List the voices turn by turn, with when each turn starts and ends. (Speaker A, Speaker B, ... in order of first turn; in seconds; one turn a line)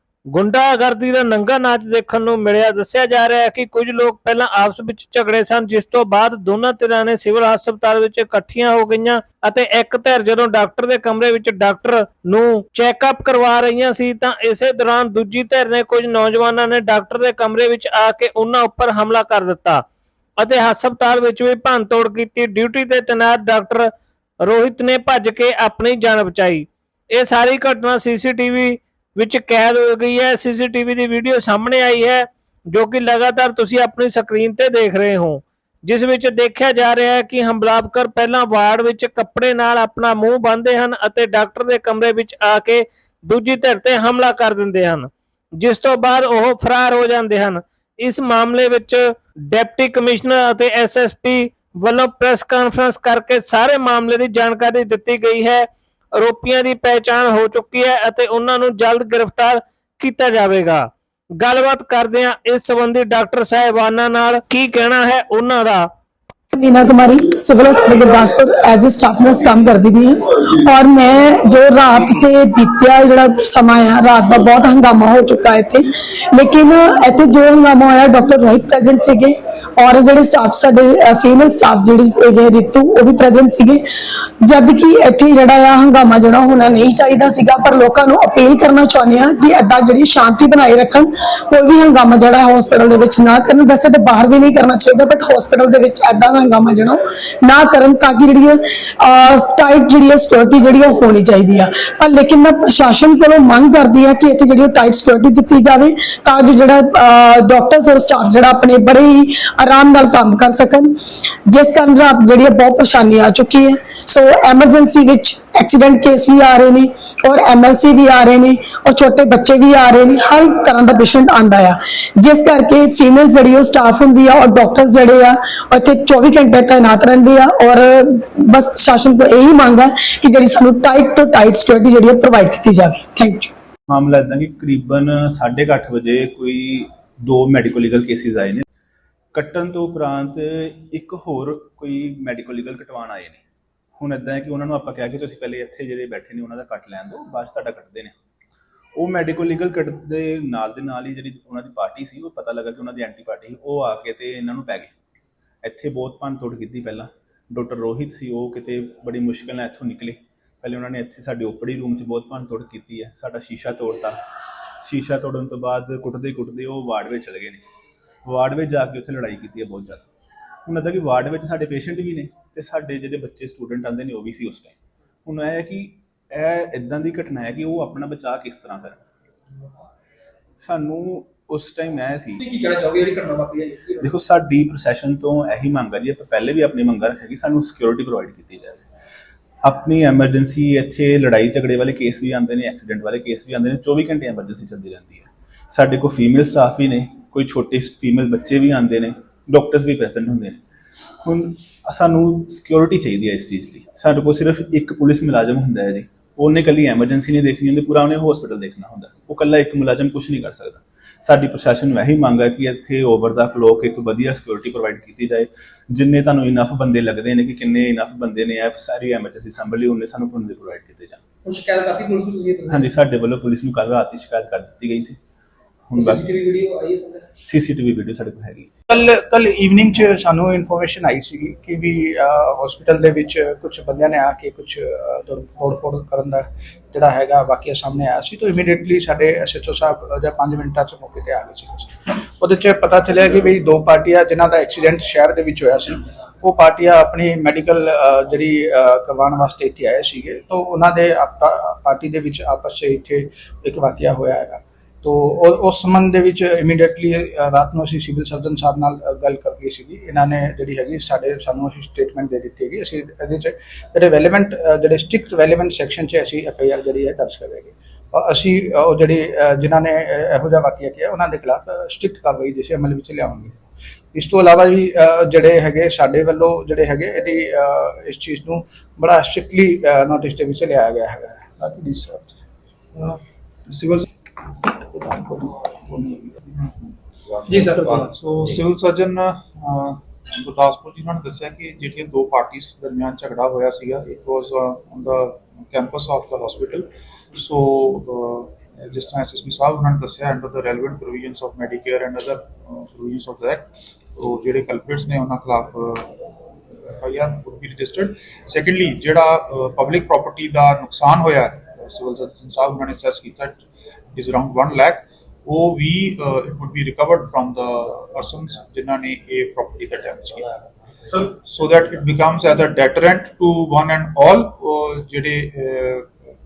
Speaker A: 0.3-19.8
Speaker A: 20.4-23.9
Speaker A: 24.4-60.9
Speaker A: 61.4-65.9
Speaker B: 66.5-83.8
Speaker B: 84.4-110.9
Speaker B: 111.5-133.5
Speaker C: 133.9-138.6
Speaker C: 139.3-143.4
Speaker C: 144.0-148.1
Speaker C: 149.0-154.9
Speaker C: 155.6-164.2
Speaker C: 164.8-167.6
Speaker C: 168.2-170.0
Speaker C: 170.7-174.7
Speaker C: 175.2-179.0
Speaker C: 180.6-182.4
Speaker D: 182.4-184.1
Speaker C: 184.0-188.8
Speaker C: 189.7-200.6
Speaker C: 201.2-221.2
Speaker D: 221.4-222.9
Speaker C: 222.7-225.2
Speaker C: 225.9-226.3
Speaker D: 225.9-227.2
Speaker C: 227.4-228.7
Speaker E: 228.9-273.6
Speaker E: 274.1-281.6
Speaker F: 281.6-282.2
Speaker F: 282.9-284.1
Speaker F: 284.6-286.1
Speaker D: 287.5-288.1
Speaker F: 287.5-306.1
Speaker F: 306.8-313.6
Speaker F: 314.1-320.5
Speaker F: 321.1-326.1